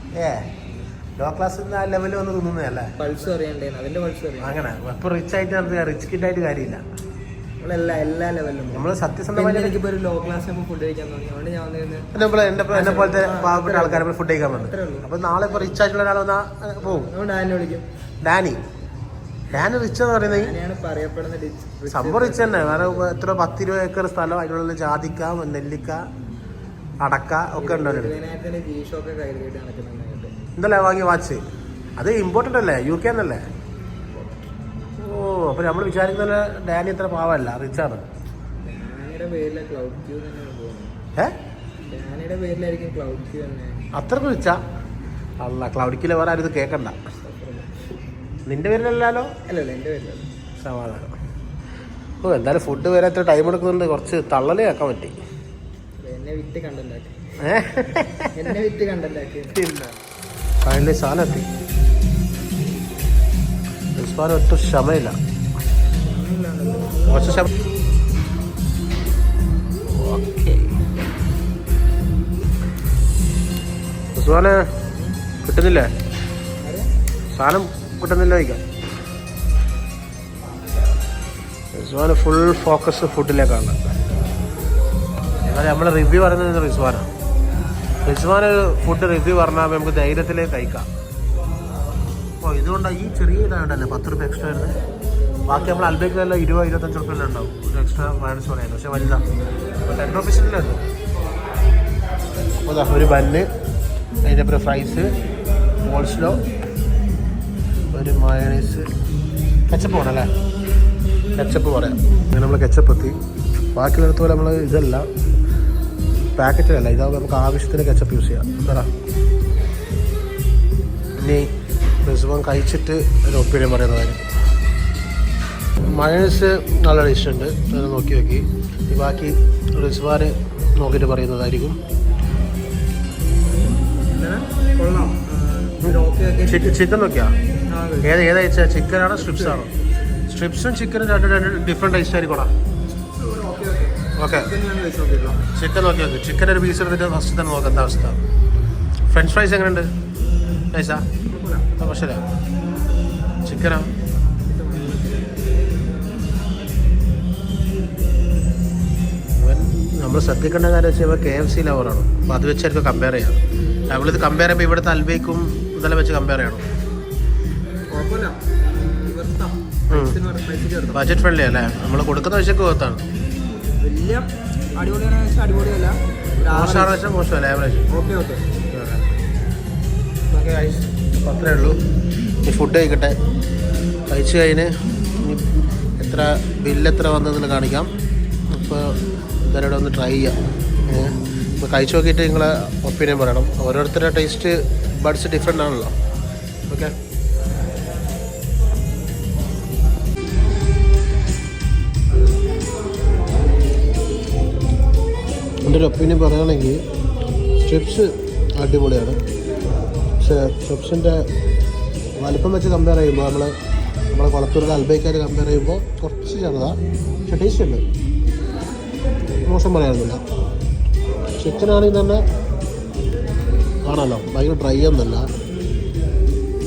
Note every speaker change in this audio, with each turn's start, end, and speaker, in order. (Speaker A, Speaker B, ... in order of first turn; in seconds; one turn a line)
Speaker A: 0.1-0.5
Speaker A: 1.2-3.2
Speaker B: 3.0-4.6
Speaker A: 4.4-6.8
Speaker B: 7.6-15.8
Speaker A: 8.7-9.8
Speaker A: 12.1-17.1
Speaker B: 16.8-17.9
Speaker A: 18.2-18.6
Speaker A: 19.5-20.5
Speaker B: 20.2-23.1
Speaker A: 21.9-26.1
Speaker A: 27.0-28.1
Speaker B: 27.6-30.3
Speaker A: 30.6-31.4
Speaker A: 32.0-33.4
Speaker B: 34.1-34.5
Speaker A: 35.0-38.0
Speaker B: 38.6-41.0
Speaker B: 41.9-43.8
Speaker A: 43.9-44.6
Speaker A: 45.4-47.0
Speaker B: 47.2-47.7
Speaker A: 48.5-49.3
Speaker B: 49.5-50.3
Speaker A: 50.6-51.1
Speaker A: 52.2-55.1
Speaker B: 56.0-57.2
Speaker A: 57.4-58.4
Speaker B: 58.4-59.6
Speaker A: 59.5-60.0
Speaker A: 60.6-61.5
Speaker A: 64.0-65.2
Speaker B: 66.0-67.5
Speaker A: 67.1-67.5
Speaker A: 69.9-70.7
Speaker A: 74.1-74.7
Speaker B: 74.9-75.2
Speaker A: 75.4-75.9
Speaker B: 76.6-76.9
Speaker A: 77.3-78.6
Speaker A: 81.7-83.8
Speaker A: 85.4-87.1
Speaker A: 88.0-90.9
Speaker A: 92.4-94.8
Speaker A: 95.5-99.2
Speaker A: 99.9-100.8
Speaker A: 102.6-103.5
Speaker A: 104.2-105.1
Speaker A: 105.8-106.4
Speaker A: 107.9-108.9
Speaker A: 109.7-110.3
Speaker A: 111.3-113.1
Speaker A: 113.7-115.0
Speaker A: 116.4-118.9
Speaker A: 121.2-121.4
Speaker A: 122.0-124.2
Speaker A: 125.9-131.8
Speaker B: 133.8-136.8
Speaker A: 135.8-137.3
Speaker B: 137.7-138.2
Speaker A: 138.0-139.7
Speaker B: 139.1-139.6
Speaker A: 140.3-142.5
Speaker B: 143.1-145.4
Speaker A: 144.2-144.5
Speaker A: 145.3-148.2
Speaker A: 149.1-149.9
Speaker A: 150.7-151.1
Speaker B: 151.2-151.7
Speaker A: 151.8-152.2
Speaker A: 153.4-153.9
Speaker B: 154.4-155.5
Speaker A: 159.4-166.6
Speaker B: 167.9-171.1
Speaker A: 169.9-170.2
Speaker A: 170.9-173.1
Speaker B: 173.8-177.0
Speaker A: 176.5-177.9
Speaker B: 177.9-178.5
Speaker A: 178.7-179.2
Speaker A: 180.3-181.8
Speaker A: 182.4-183.2
Speaker A: 184.1-185.5
Speaker A: 186.0-187.9
Speaker A: 188.5-190.3
Speaker A: 190.9-195.9
Speaker A: 196.7-196.9
Speaker A: 205.6-206.8
Speaker A: 207.6-209.2
Speaker A: 210.2-211.2
Speaker A: 212.2-213.5
Speaker A: 214.1-217.8
Speaker A: 219.4-220.2
Speaker A: 221.4-222.2
Speaker A: 223.8-225.3